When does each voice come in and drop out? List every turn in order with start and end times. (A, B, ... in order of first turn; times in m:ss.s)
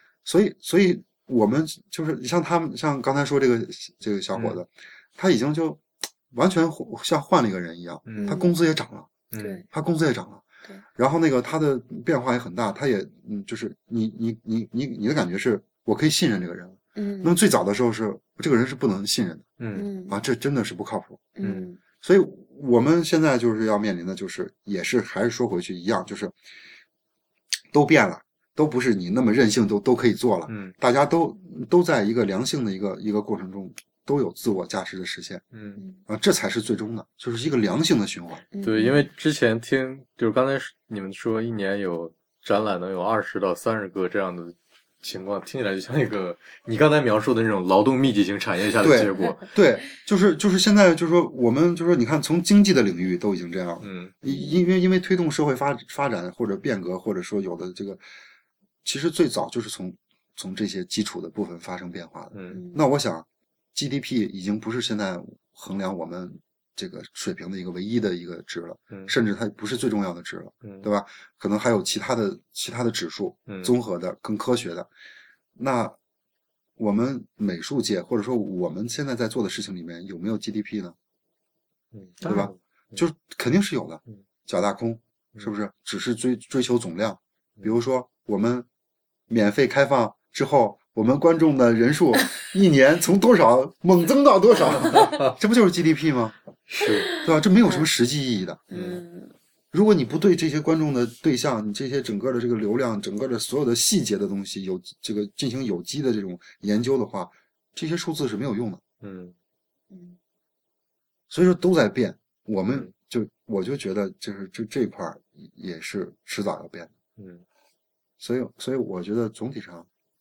0:00.2-0:10.4 A
0:04.4-0:04.6 B
0:08.1-0:08.4 B
0:08.2-0:08.6 C
0:09.3-0:09.6 B
0:09.4-0:09.7 C
0:11.0-0:21.3 A
0:17.0-0:17.4 C
0:19.6-0:19.9 B
0:19.8-0:20.2 C
0:21.4-0:21.8 C
0:21.4-0:21.7 B
0:22.0-0:26.4 A
0:27.7-0:35.4 A
0:30.5-0:30.7 B
0:35.5-0:35.8 B
0:36.1-0:38.4 A
0:38.5-0:39.1 C
0:38.6-0:49.4 B
0:48.8-0:58.0 A
0:49.1-0:49.5 C
0:53.8-0:54.1 B
0:54.3-0:54.6 C
0:58.8-1:14.9 A
1:02.3-1:02.6 B
1:02.5-1:02.8 C
1:13.5-1:13.7 B
1:15.6-1:16.0 A
1:16.8-1:21.0 A
1:21.9-1:23.0 B
1:22.2-1:28.7 A
1:29.3-1:36.4 A
1:35.0-1:35.3 B
1:36.7-1:37.1 B
1:36.8-1:37.9 C
1:37.1-1:38.7 A
1:38.7-1:39.3 C
1:38.7-1:39.0 B
1:39.7-1:48.8 A
1:49.0-1:49.3 B
1:49.9-1:50.2 C
1:51.3-1:56.9 A
1:57.2-1:57.4 B
1:58.2-1:59.9 A